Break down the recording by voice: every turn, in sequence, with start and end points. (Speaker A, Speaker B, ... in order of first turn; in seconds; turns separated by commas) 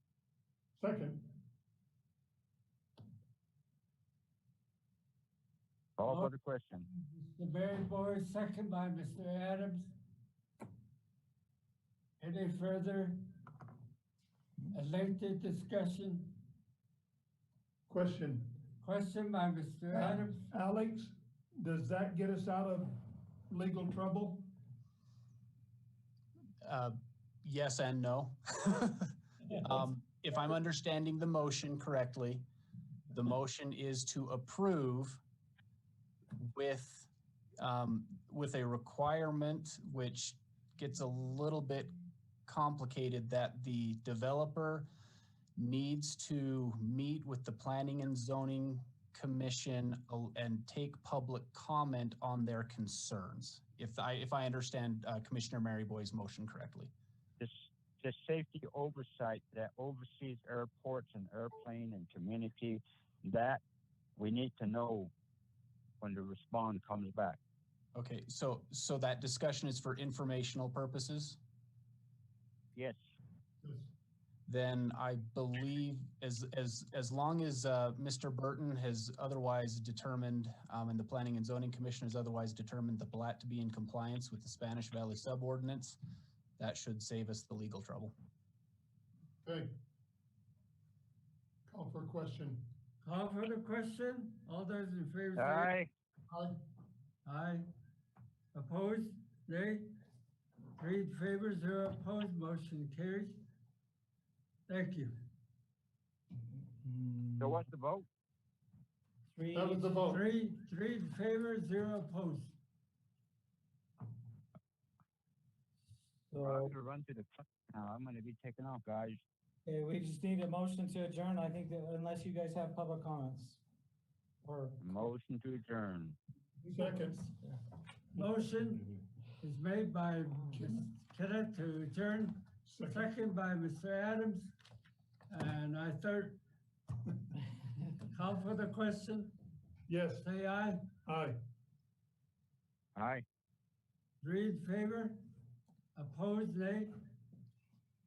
Speaker A: 0.8-1.2, Speaker B: 6.0-6.9, Speaker C: 6.0-6.3, Speaker C: 7.2-9.9, Speaker C: 12.2-13.2, Speaker C: 14.7-16.4, Speaker A: 17.9-18.5, Speaker C: 18.8-20.5, Speaker A: 19.9-24.5, Speaker D: 26.6-32.5, Speaker D: 33.1-35.2, Speaker D: 36.4-37.1, Speaker D: 37.6-41.9, Speaker D: 42.5-44.9, Speaker D: 45.5-56.9, Speaker B: 57.4-63.6, Speaker B: 64.2-65.1, Speaker B: 66.0-67.4, Speaker D: 67.9-71.4, Speaker A: 73.6-73.9, Speaker D: 74.5-86.0, Speaker D: 86.6-88.1, Speaker A: 89.4-89.8, Speaker A: 91.7-92.7, Speaker C: 93.0-95.7, Speaker B: 95.4-95.9, Speaker A: 96.3-96.6, Speaker C: 97.2-97.6, Speaker C: 98.5-99.9, Speaker C: 100.8-103.4, Speaker C: 104.7-105.2, Speaker E: 106.8-107.6, Speaker B: 107.4-108.1, Speaker E: 109.3-109.9, Speaker A: 109.5-110.2, Speaker C: 110.0-112.5, Speaker E: 116.3-116.7, Speaker B: 116.4-119.2, Speaker E: 119.7-123.6, Speaker E: 124.4-124.8, Speaker B: 124.8-126.2, Speaker A: 126.7-127.3, Speaker E: 126.8-127.5, Speaker C: 128.1-134.5, Speaker A: 130.5-130.8, Speaker A: 132.7-133.1, Speaker C: 135.3-136.4, Speaker C: 138.0-139.4, Speaker A: 139.9-140.3, Speaker C: 140.2-140.9, Speaker A: 141.0-141.4, Speaker B: 143.0-143.2, Speaker C: 144.2-145.2, Speaker C: 145.9-146.9